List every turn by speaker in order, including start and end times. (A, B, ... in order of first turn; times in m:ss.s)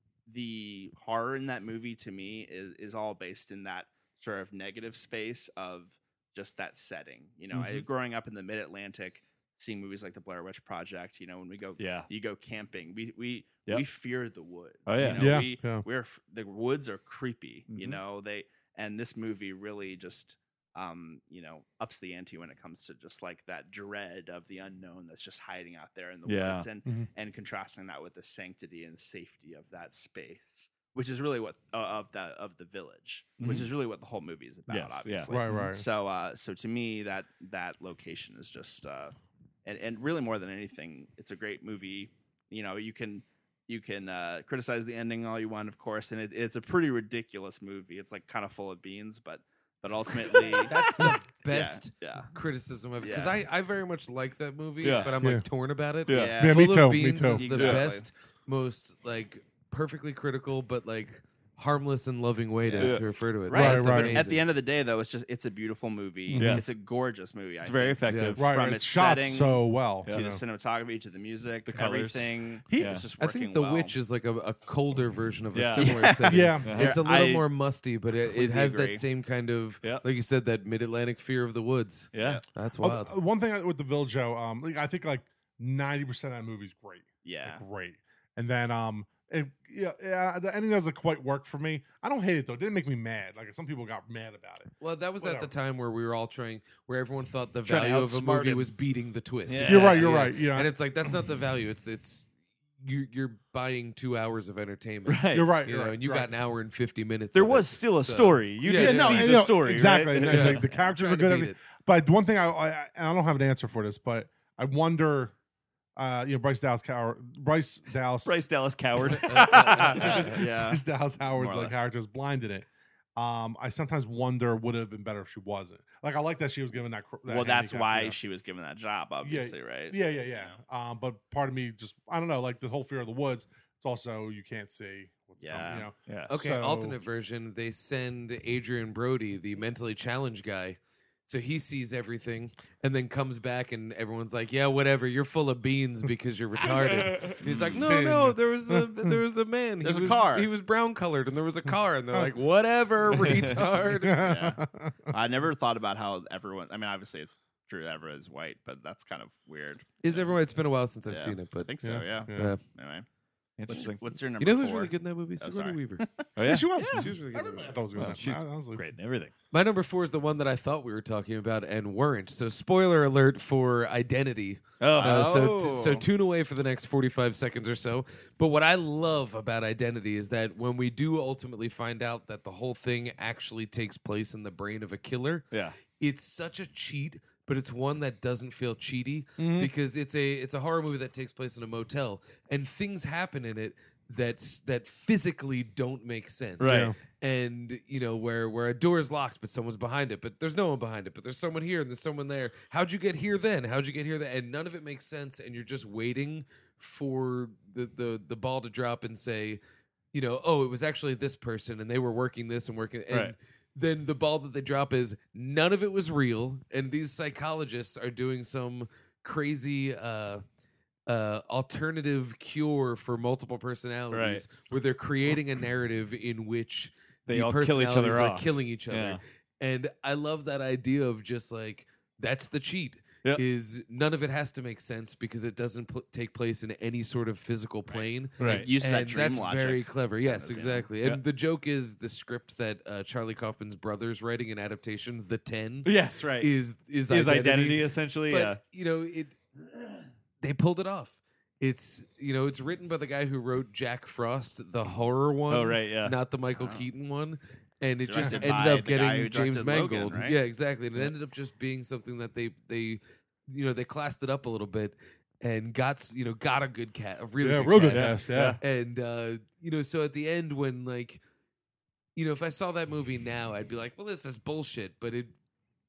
0:00.3-0:52.3 A
0:07.5-0:07.8 B
0:11.8-0:12.1 B
0:14.9-0:15.4 B
0:15.1-0:15.8 C
0:17.7-0:18.0 B
0:26.3-0:26.7 B
0:33.4-0:33.7 B
0:34.7-0:35.4 B
0:35.3-0:35.8 C
0:50.4-0:51.0 B
0:50.6-1:04.5 D
0:53.0-0:53.4 A
0:54.8-0:55.1 B
0:56.1-0:56.4 B
0:56.1-0:58.1 A
0:56.4-0:57.5 C
0:57.5-0:57.8 B
1:02.6-1:14.0 A
1:03.5-1:04.2 C
1:06.3-1:06.6 C
1:06.4-1:06.7 B
1:07.6-1:08.5 B
1:08.1-1:08.4 D
1:08.4-1:10.4 C
1:11.7-1:13.0 B
1:12.7-1:13.0 C
1:13.2-1:23.2 D
1:15.5-1:16.0 B
1:15.8-1:17.5 A
1:16.3-1:16.8 C
1:16.6-1:17.0 B
1:18.2-1:19.0 A
1:22.1-1:22.4 B
1:22.2-1:22.4 A
1:22.8-1:35.5 C
1:27.2-1:27.6 A
1:34.8-1:42.3 D
1:37.7-1:38.7 B
1:39.5-1:40.2 B
1:39.6-1:40.7 C
1:42.8-1:49.4 D
1:45.1-1:45.6 B
1:45.3-1:46.3 C
1:47.3-1:50.7 B
1:48.7-1:55.3 C
1:50.2-1:51.6 D
1:56.0-1:58.4 C
1:58.2-2:00.3 B
1:59.0-2:08.2 C
1:59.1-2:00.3 D
1:59.7-2:00.8 A
2:01.3-2:01.8 A
2:07.3-2:10.6 A
2:09.2-2:17.0 C
2:15.4-2:15.9 A
2:16.3-2:34.3 D
2:26.6-2:27.8 B
2:27.4-2:27.7 A
2:27.7-2:29.2 C
2:29.8-2:30.5 A
2:33.1-2:33.6 B
2:33.9-2:35.1 C
2:34.2-2:34.6 A
2:35.1-2:40.3 A
2:40.0-2:41.7 D
2:41.1-2:43.1 A
2:41.8-2:42.5 C
2:42.3-2:42.6 D
2:43.6-2:44.0 B
2:43.7-2:47.0 A
2:44.4-2:46.1 D
2:46.4-2:47.0 B
2:46.4-2:48.8 C
2:46.8-2:47.8 D
2:48.0-2:49.3 B
2:49.5-3:05.5 D
2:54.8-2:55.4 B
2:54.9-2:56.1 A
3:06.0-3:29.6 D
3:09.4-3:09.7 C
3:16.6-3:16.9 B
3:16.6-3:17.0 C
3:30.1-3:40.4 D
3:33.1-3:33.3 B
3:41.1-4:31.2 D
3:44.1-3:44.5 B
3:47.3-3:49.2 B
3:57.9-4:00.9 A
3:58.4-3:58.7 C
3:58.4-3:58.7 B
4:05.8-4:06.5 B
4:07.1-4:08.6 B
4:15.5-4:16.2 B
4:16.6-4:16.9 A
4:18.1-4:20.4 A
4:27.4-4:28.6 C
4:27.9-4:28.6 B
4:32.2-4:35.3 D